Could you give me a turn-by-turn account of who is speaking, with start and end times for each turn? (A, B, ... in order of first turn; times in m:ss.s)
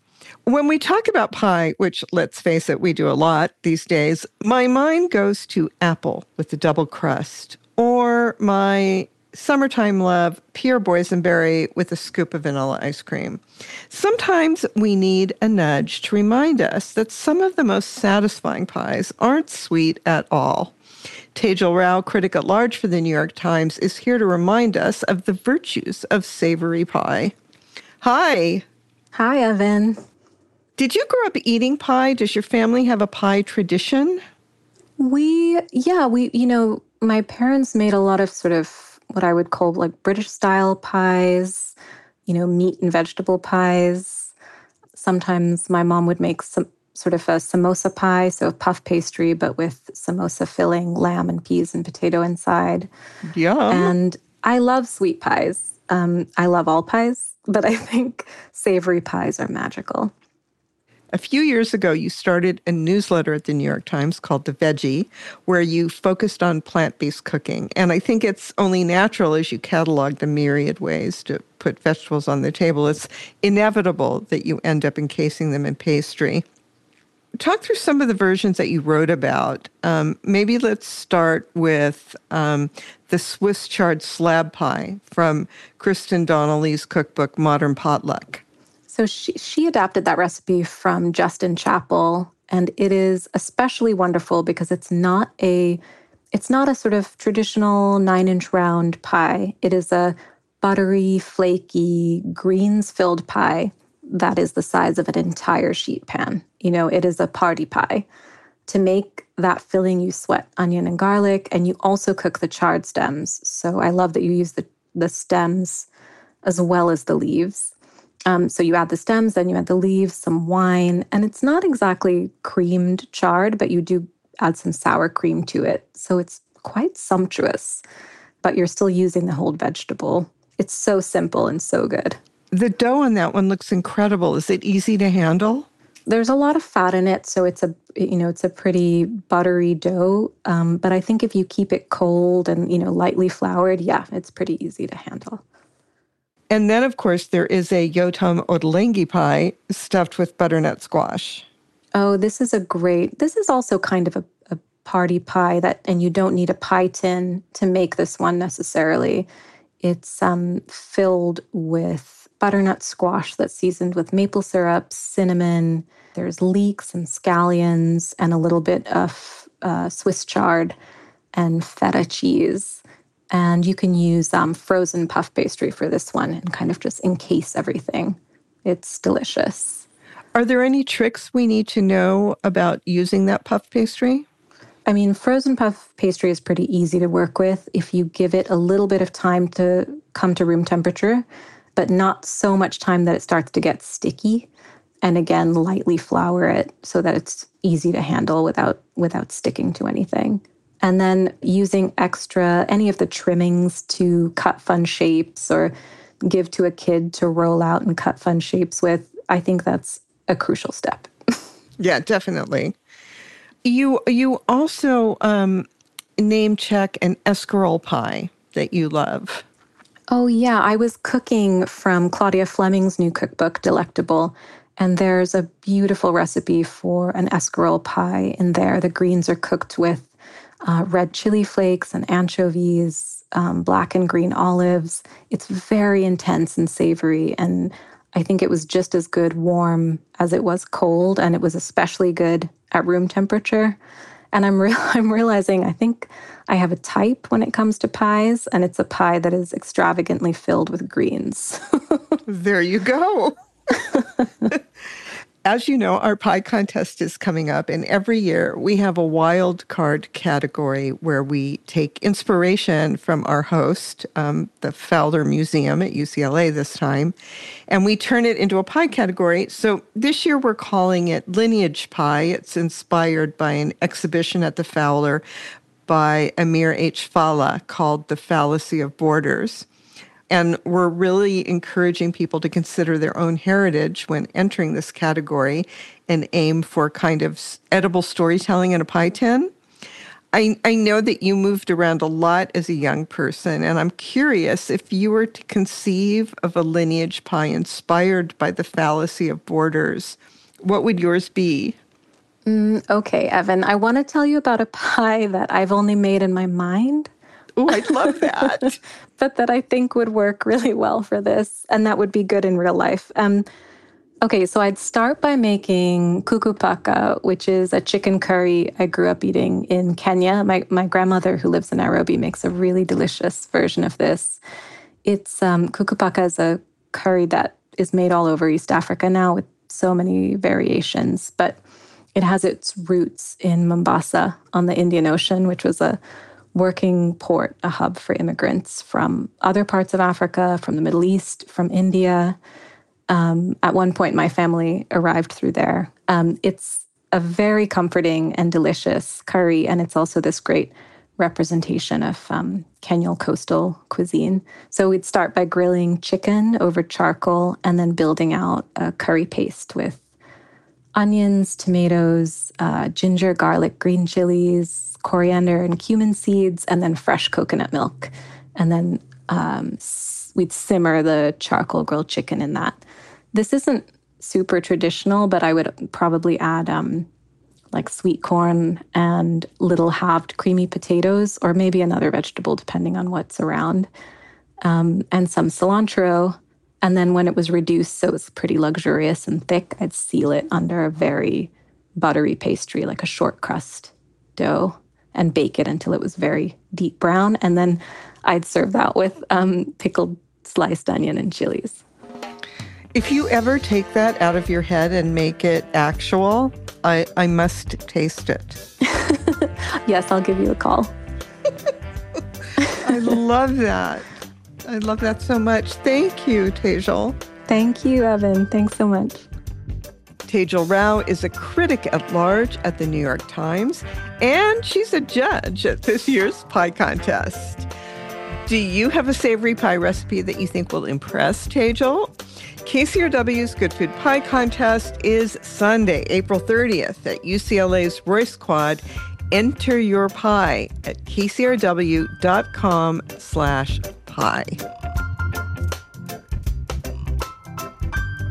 0:00.4-0:20.7 A
0:21.3-0:27.3 A
0:28.0-0:28.6 A
0:29.1-0:30.0 B
0:30.8-0:34.2 A
0:35.0-0:41.7 B
0:42.3-0:44.3 B
0:44.9-0:52.9 B
0:53.3-0:53.9 A
0:53.7-1:00.1 B
1:01.1-1:16.4 A
1:17.4-1:28.4 A
1:28.9-1:35.8 B
1:36.3-1:48.0 B
1:48.7-1:55.9 B
1:56.4-1:57.7 B
1:58.3-2:07.8 B
2:08.4-2:12.2 B
2:12.5-2:15.7 A
2:16.1-2:25.4 B
2:26.5-2:31.4 A
2:31.9-2:39.3 B
2:39.8-2:50.8 B
2:51.3-2:59.8 B
3:00.3-3:04.2 A
3:04.8-3:14.5 B
3:15.0-3:25.7 B
3:26.2-3:31.4 B
3:31.8-3:32.7 A
3:33.6-3:35.7 A
3:36.2-3:39.4 A
3:40.1-3:50.1 B
3:50.6-4:03.8 B
4:04.3-4:12.1 B
4:12.3-4:13.3 A
4:15.4-4:27.1 A
4:27.7-4:35.2 A
4:35.9-4:39.6 A
4:40.3-4:49.5 A
4:50.3-5:01.8 A
5:02.4-5:07.1 B
5:07.6-5:08.8 A
5:07.7-5:08.2 B
5:09.2-5:13.5 B
5:14.2-5:24.4 B
5:25.0-5:31.6 B
5:32.1-5:36.0 B
5:36.5-5:42.4 B
5:43.1-6:00.0 B
6:00.9-6:12.8 B
6:13.3-6:17.1 B
6:17.7-6:23.9 B
6:24.6-6:41.8 B
6:42.9-6:48.6 A
6:48.8-6:50.9 B
6:52.6-6:53.0 B
6:52.8-6:54.0 A
6:54.6-6:57.2 A
6:57.5-6:59.2 B
7:00.3-7:07.7 A
7:08.4-7:24.6 A